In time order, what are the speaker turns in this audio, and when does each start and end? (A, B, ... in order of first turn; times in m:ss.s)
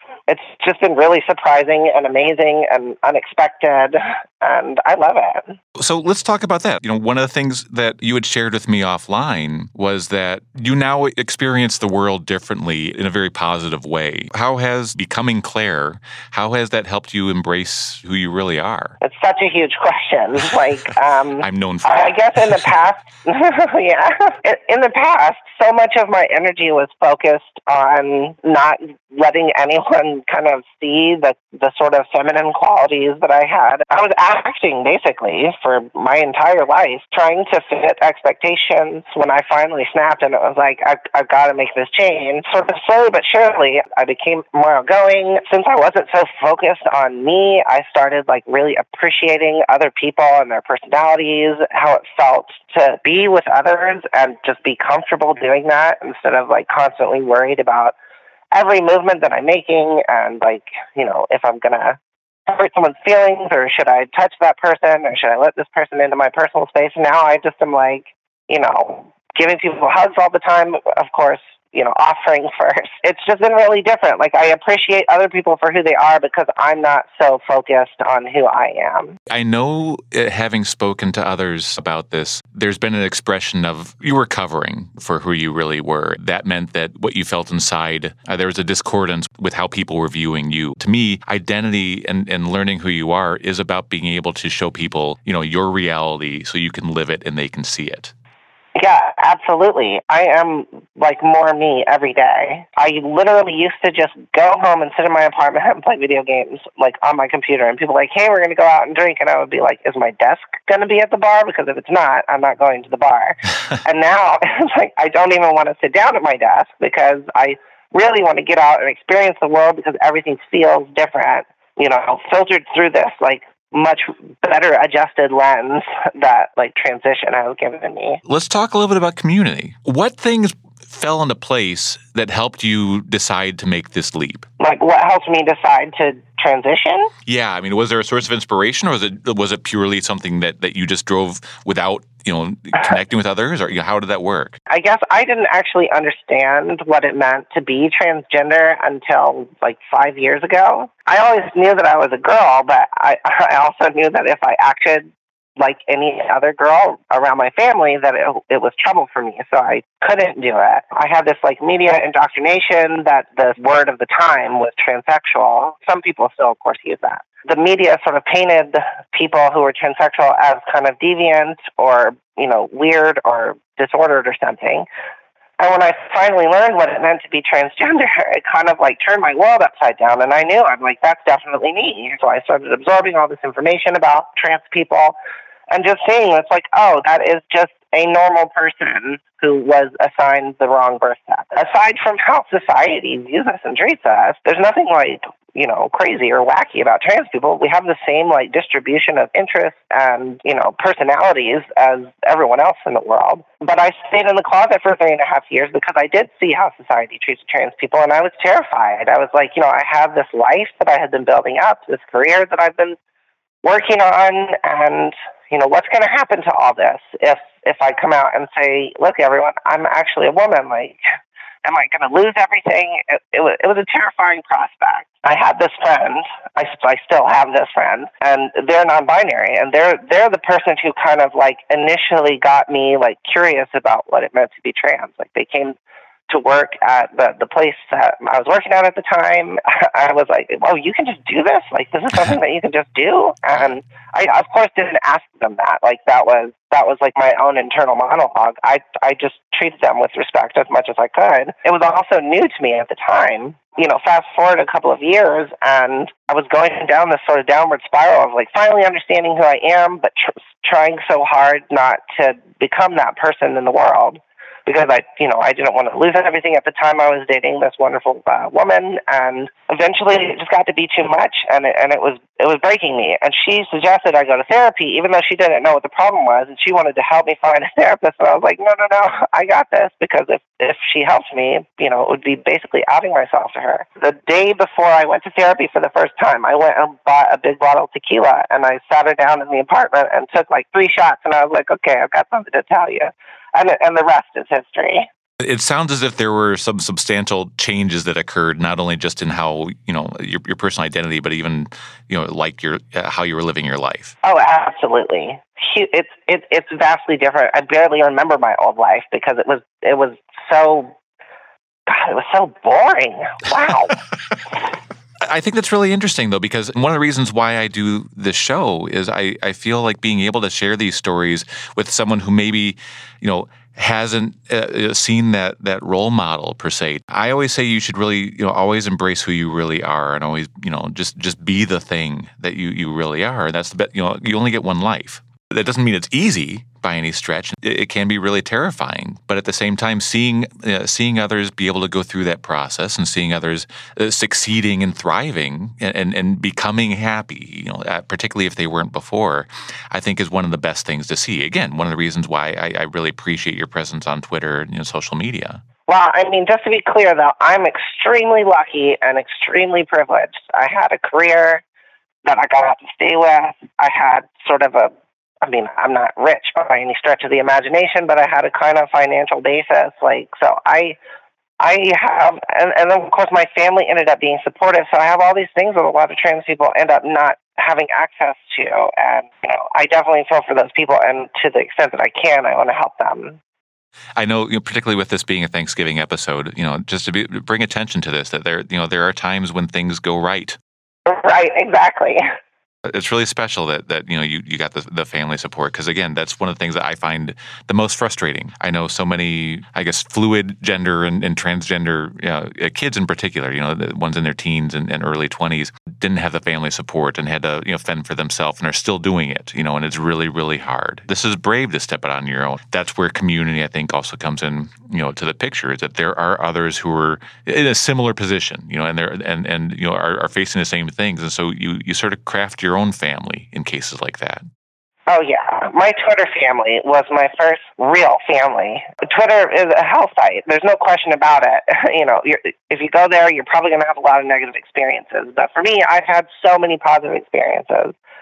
0:00.3-0:05.6 A
0:05.8-0:19.0 B
0:19.0-0:57.9 A
0:21.4-0:22.7 B
0:58.5-1:19.2 A
1:19.3-1:38.1 B
1:38.8-2:08.2 A
2:08.2-2:14.5 B
2:14.6-2:17.1 A
2:17.2-2:24.6 B
2:24.7-2:54.8 A
2:55.6-3:05.1 A
3:05.7-3:33.0 A
3:33.6-3:41.0 A
3:41.6-3:55.8 A
3:56.3-4:55.1 A
4:55.4-5:04.2 B
5:04.2-5:10.9 A
5:11.9-5:14.0 A
5:15.2-5:55.6 B
5:55.9-6:01.6 A
6:02.2-6:04.9 A
6:05.4-6:11.0 A
6:11.6-6:23.4 A
6:24.2-6:30.6 B
6:31.0-6:32.2 A
6:32.8-7:04.4 B
7:05.1-7:18.0 A